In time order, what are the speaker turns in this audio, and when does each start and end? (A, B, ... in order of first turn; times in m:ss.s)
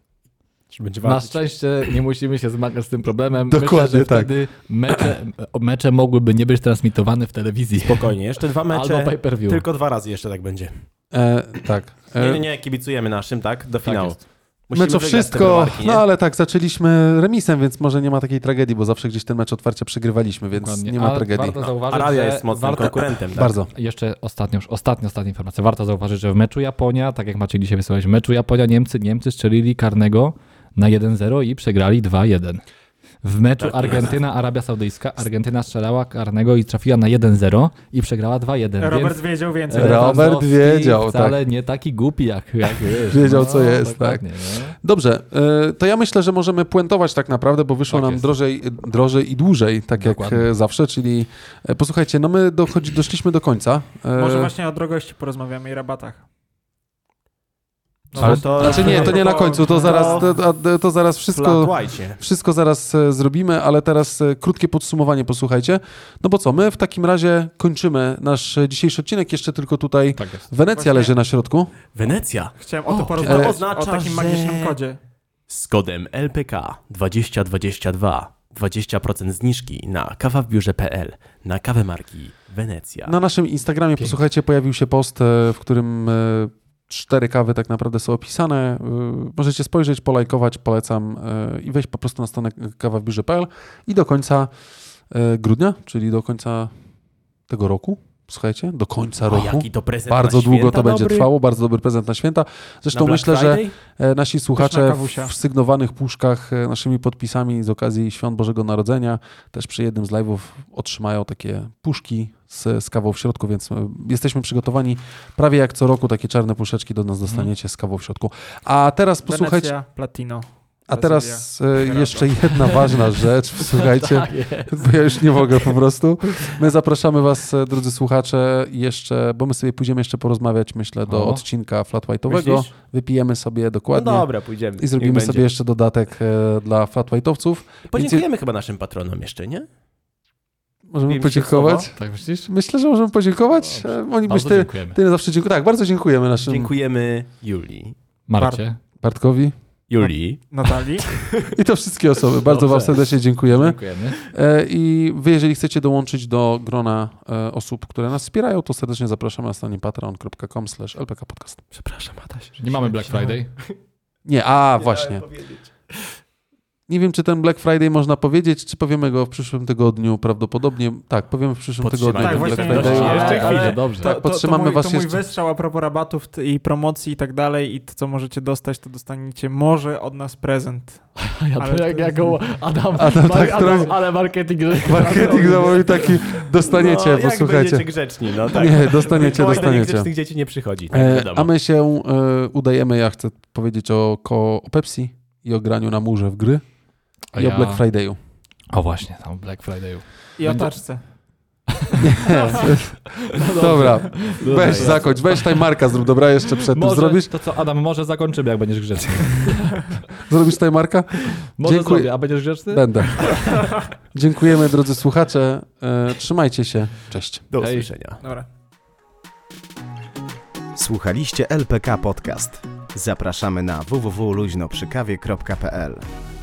0:00.7-0:01.4 A
0:01.0-0:08.1 B
0:03.5-0:04.3 C
0:07.9-0:10.7 A
0:08.7-0:09.6 B
0:11.1-0:12.4 C
0:12.2-0:14.2 A
0:13.8-0:14.2 B
0:14.7-0:16.0 A
0:14.8-0:21.6 C
0:20.5-0:32.6 B
0:21.6-0:23.6 A
0:23.4-0:23.7 C
0:33.2-0:44.8 B
0:33.6-0:34.2 A
0:38.8-0:40.2 D
0:39.8-0:41.4 C
0:43.1-0:44.2 C
0:44.8-0:54.5 C
0:47.9-0:48.2 B
0:50.0-0:50.5 B
0:54.2-0:56.2 D
0:58.1-1:00.3 D
0:58.2-0:59.0 B
0:58.2-1:11.7 C
0:58.2-1:00.3 A
1:01.3-1:02.2 A
1:10.2-1:10.5 B
1:10.7-1:11.1 D
1:12.0-1:14.8 A
1:12.6-1:15.0 D
1:13.2-1:13.6 C
1:15.5-1:23.2 A
1:23.1-1:34.5 C
1:35.1-1:36.7 C
1:37.5-1:59.7 C
1:39.3-1:41.3 A
1:42.9-1:43.7 A
1:44.6-1:45.3 D
1:59.3-2:02.7 D
2:00.9-2:18.2 C
2:02.6-2:03.0 B
2:03.6-2:04.9 B
2:11.1-2:11.4 B
2:12.3-2:12.7 A
2:13.9-2:15.4 A
2:17.9-2:19.7 A
2:20.9-2:21.9 C
2:21.1-2:21.9 A
2:21.9-2:22.5 B
2:22.5-2:26.7 C
2:23.6-2:25.0 B
2:26.5-2:28.0 A
2:28.3-2:28.8 B
2:29.0-2:29.5 C
2:29.9-2:31.6 A
2:30.5-2:31.1 D
2:31.5-2:41.7 C
2:32.4-2:34.2 B
2:41.7-2:43.8 A
2:42.6-2:43.5 B
2:44.2-2:45.2 C
2:44.8-2:45.7 A
2:46.9-2:55.2 C
2:51.8-2:53.8 A
2:52.1-3:02.4 D
2:52.7-2:54.2 B
3:01.2-3:06.2 B
3:03.0-3:04.0 C
3:03.4-3:03.9 D
3:04.8-3:06.2 D
3:04.8-3:07.9 C
3:06.6-3:11.5 A
3:08.4-3:10.1 C
3:10.9-3:16.6 C
3:17.3-3:17.8 B
3:17.4-3:18.2 C
3:18.7-3:20.8 B
3:20.4-3:21.0 D
3:21.7-3:25.7 B
3:22.0-3:27.3 C
3:24.5-3:25.0 A
3:26.5-3:29.8 B
3:30.2-3:32.1 C
3:31.6-3:33.5 B
3:32.7-3:37.5 C
3:37.5-3:38.2 A
3:37.6-3:37.9 B
3:38.2-3:38.5 D
3:40.8-3:46.0 E